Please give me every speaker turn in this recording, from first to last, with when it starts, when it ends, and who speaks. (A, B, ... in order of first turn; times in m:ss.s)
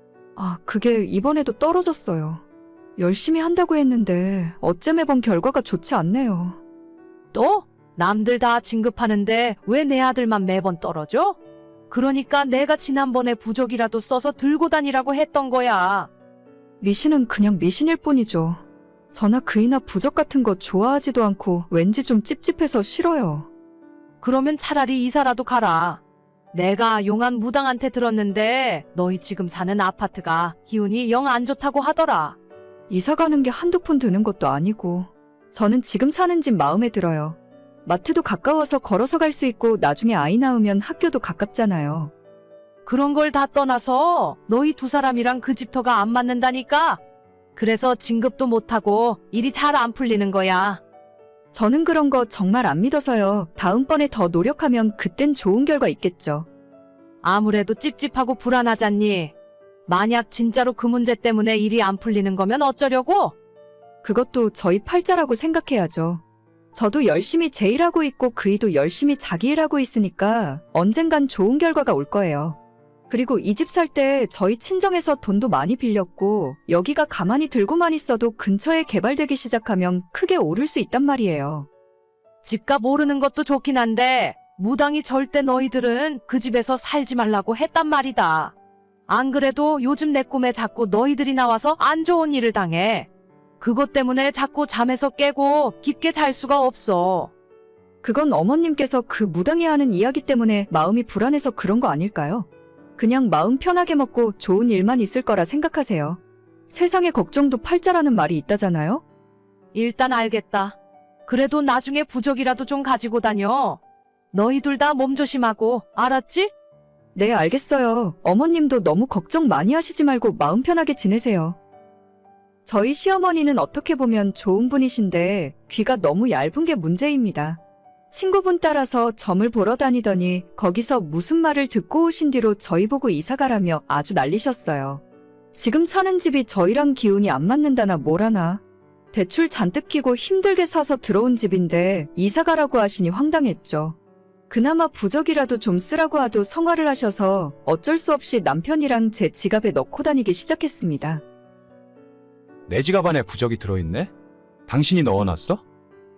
0:00.4-0:02.4 A
0:03.0-0:06.6 A
0:07.3-0:11.4 B
0:11.9-0:16.1 B
0:16.8-0:23.5 A
0:24.2-0:26.0 B
0:26.5-0:32.4 B
0:32.9-0:42.1 A
0:42.9-0:47.0 B
0:47.6-0:50.8 B
0:51.5-0:56.5 A
0:57.2-0:59.3 B
0:59.9-1:03.4 B
1:04.0-1:12.6 A
1:13.1-1:21.7 A
1:22.4-1:28.5 B
1:29.1-1:33.1 B
1:33.6-1:37.3 B
1:38.0-1:49.0 A
1:49.7-1:50.8 B
1:51.3-1:53.8 B
1:54.3-1:56.5 B
1:57.2-2:01.6 A
2:02.7-2:15.0 A
2:15.5-2:18.6 A
2:19.1-2:24.0 A
2:24.5-2:31.2 A
2:32.7-2:34.1 C
2:34.7-2:35.6 C